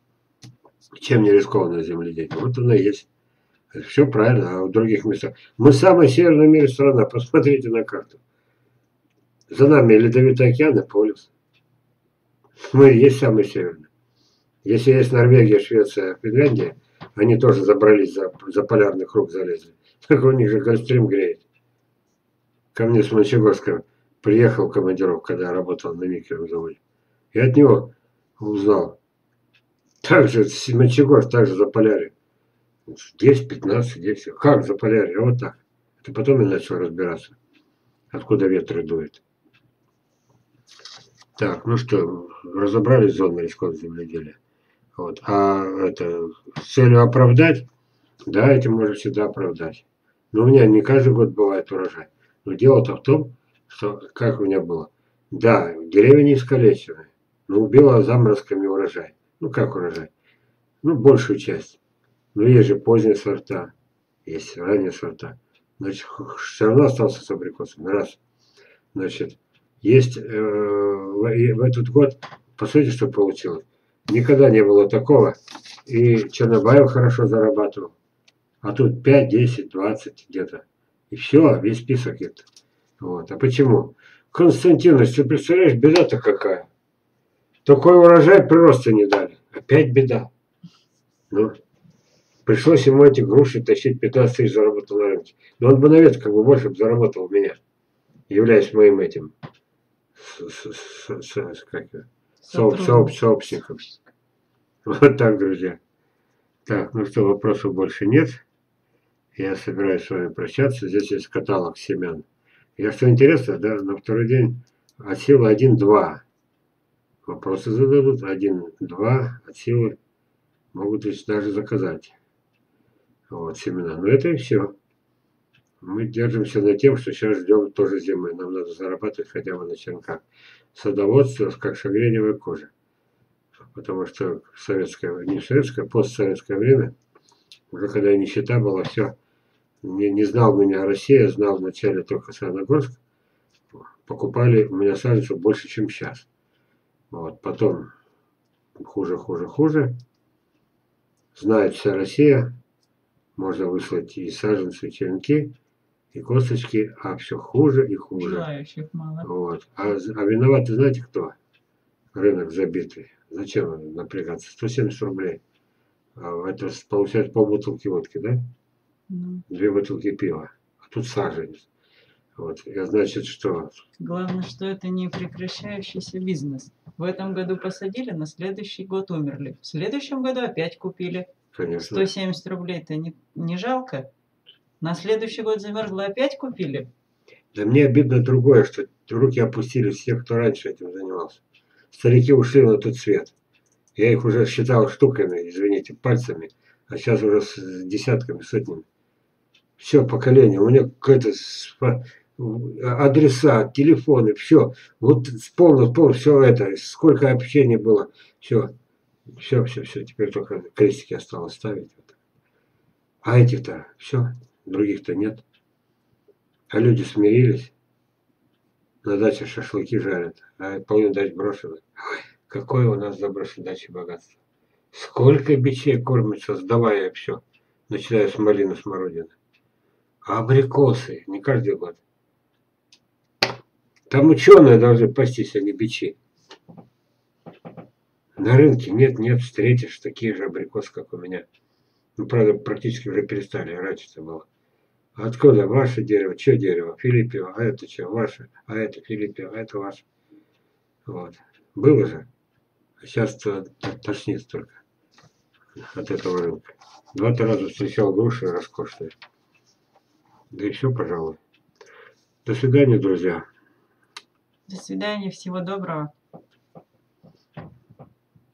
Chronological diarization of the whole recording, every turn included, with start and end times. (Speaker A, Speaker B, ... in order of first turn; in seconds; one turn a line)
Speaker A: 1.0-3.1
Speaker A: 3.7-8.2
Speaker A: 9.5-11.3
Speaker A: 12.6-13.9
Speaker A: 14.6-21.4
Speaker A: 22.7-26.8
Speaker A: 27.3-29.0
Speaker A: 30.0-32.1
Speaker A: 32.9-37.4
Speaker A: 38.1-39.2
Speaker A: 41.4-44.4
Speaker A: 45.0-47.7
Speaker A: 48.3-60.1
Speaker A: 60.8-61.8
Speaker A: 62.4-63.7
Speaker A: 64.3-68.2
Speaker A: 68.9-78.0
Speaker A: 78.6-82.5
Speaker A: 83.0-86.7
Speaker A: 87.7-90.3
Speaker A: 91.3-91.6
Speaker A: 92.5-97.6
Speaker A: 98.3-99.3
Speaker A: 100.2-103.9
Speaker B: 102.4-103.3
Speaker A: 104.8-105.8
Speaker A: 106.7-108.4
Speaker A: 109.3-116.2
Speaker A: 117.3-120.0
Speaker A: 120.7-122.2
Speaker A: 123.3-124.8
Speaker A: 125.8-132.7
Speaker A: 133.7-136.9
Speaker A: 137.7-139.2
Speaker A: 139.8-143.0
Speaker A: 143.7-146.3
Speaker A: 147.1-147.9
Speaker A: 148.8-149.9
Speaker A: 151.3-152.6
Speaker A: 153.4-155.6
Speaker A: 156.1-158.5
Speaker B: 158.2-159.3
Speaker A: 159.2-161.4
Speaker A: 162.1-165.4
Speaker A: 166.2-168.4
Speaker B: 169.1-169.4
Speaker A: 169.5-171.7
Speaker A: 172.4-173.8
Speaker B: 174.0-181.3
Speaker A: 181.5-182.1
Speaker B: 181.8-184.1
Speaker B: 184.8-186.9
Speaker A: 187.5-191.4
Speaker A: 191.9-193.3
Speaker A: 194.0-198.8
Speaker A: 199.8-208.7
Speaker A: 209.3-212.1
Speaker A: 213.2-215.4
Speaker A: 216.7-217.7
Speaker A: 219.0-224.4
Speaker A: 224.9-229.3
Speaker A: 230.2-232.0
Speaker A: 234.1-236.2
Speaker A: 238.4-241.5
Speaker A: 242.2-244.5
Speaker A: 245.2-250.1
Speaker A: 251.1-252.3
Speaker A: 253.0-254.8
Speaker A: 255.8-259.1
Speaker A: 260.5-261.4
Speaker A: 262.4-263.5
Speaker B: 264.7-266.1